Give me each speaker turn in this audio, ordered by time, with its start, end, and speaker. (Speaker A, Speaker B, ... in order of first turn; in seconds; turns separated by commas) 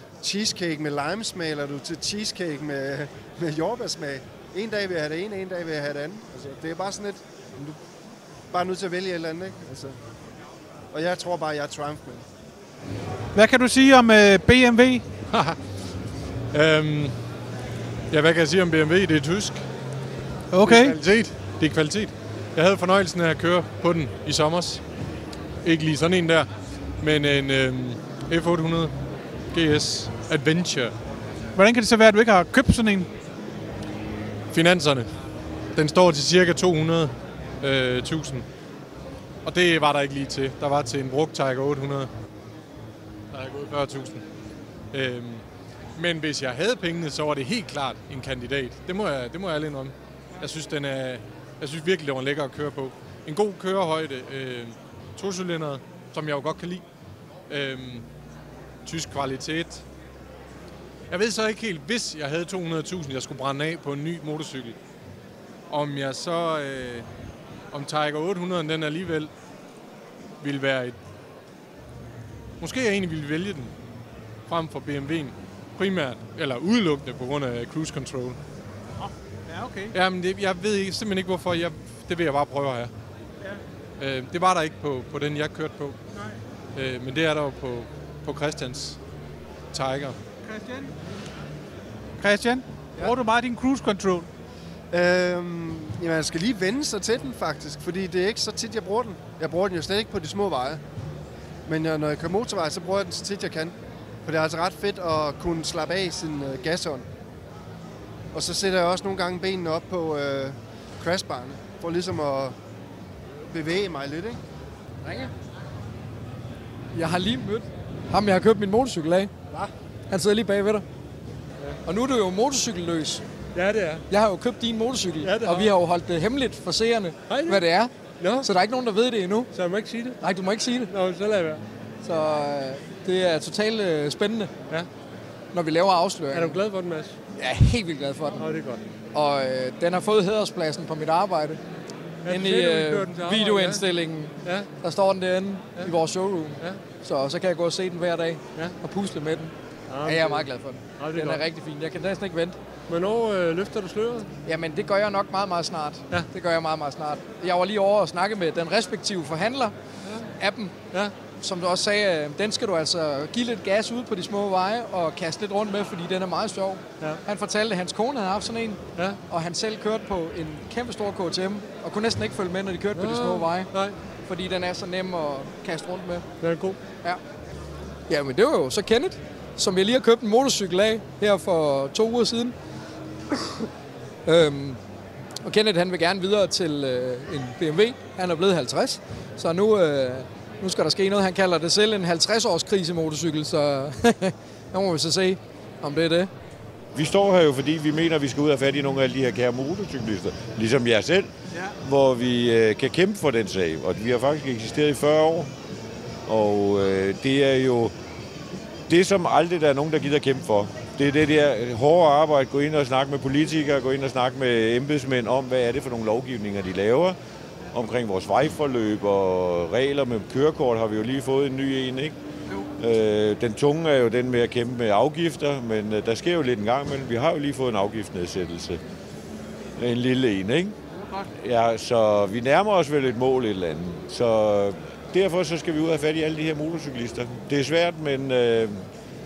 Speaker A: 0.2-7.8, Speaker A: 8.5-10.0, Speaker A: 10.9-12.3, Speaker B: 13.3-15.0, Speaker C: 15.3-15.6, Speaker C: 16.5-17.1, Speaker C: 18.1-19.6, Speaker B: 20.5-21.0, Speaker C: 20.6-24.8, Speaker C: 25.6-26.5, Speaker C: 27.0-28.9, Speaker C: 29.5-30.9, Speaker B: 31.5-33.1, Speaker C: 34.5-35.1, Speaker C: 35.7-38.4, Speaker C: 39.4-42.1, Speaker C: 43.3-44.2, Speaker C: 44.9-56.8, Speaker C: 57.5-58.0, Speaker C: 58.9-59.9, Speaker C: 61.1-64.8, Speaker C: 65.7-67.1, Speaker C: 67.7-69.3, Speaker C: 70.4-71.0, Speaker C: 72.6-73.7, Speaker C: 74.5-78.4, Speaker B: 79.0-79.9, Speaker C: 79.9-82.9, Speaker C: 84.0-86.0, Speaker C: 86.7-89.0, Speaker C: 89.7-90.2, Speaker B: 90.4-90.9, Speaker B: 92.2-94.3, Speaker A: 94.9-100.8, Speaker A: 101.7-107.1, Speaker A: 108.3-112.6, Speaker A: 113.5-114.4, Speaker D: 116.9-119.3, Speaker D: 120.1-120.8, Speaker D: 121.8-123.2, Speaker E: 123.5-124.0, Speaker D: 124.1-129.5, Speaker E: 125.2-125.7, Speaker E: 127.3-127.7, Speaker E: 128.2-128.5, Speaker E: 129.5-130.2, Speaker D: 130.2-130.9, Speaker E: 130.9-131.6, Speaker D: 132.0-134.5, Speaker D: 135.5-136.6, Speaker E: 136.3-137.2, Speaker D: 137.4-138.5, Speaker E: 138.4-138.8, Speaker D: 139.1-141.6, Speaker E: 142.2-143.8, Speaker D: 142.3-152.6, Speaker E: 144.4-144.7, Speaker E: 149.9-150.5, Speaker E: 151.0-151.4, Speaker E: 152.9-154.3, Speaker D: 154.4-159.7, Speaker E: 160.1-160.3, Speaker D: 160.4-160.8, Speaker D: 161.3-173.7, Speaker E: 172.9-173.9, Speaker D: 174.2-176.2, Speaker E: 176.4-176.8, Speaker D: 178.1-182.6, Speaker D: 184.2-184.8, Speaker D: 185.4-196.3, Speaker F: 196.9-201.3, Speaker F: 201.8-205.5, Speaker F: 206.2-207.9, Speaker F: 208.9-217.2, Speaker F: 217.7-222.1, Speaker F: 222.8-228.8, Speaker F: 229.8-230.8, Speaker B: 230.9-231.3, Speaker F: 231.4-238.8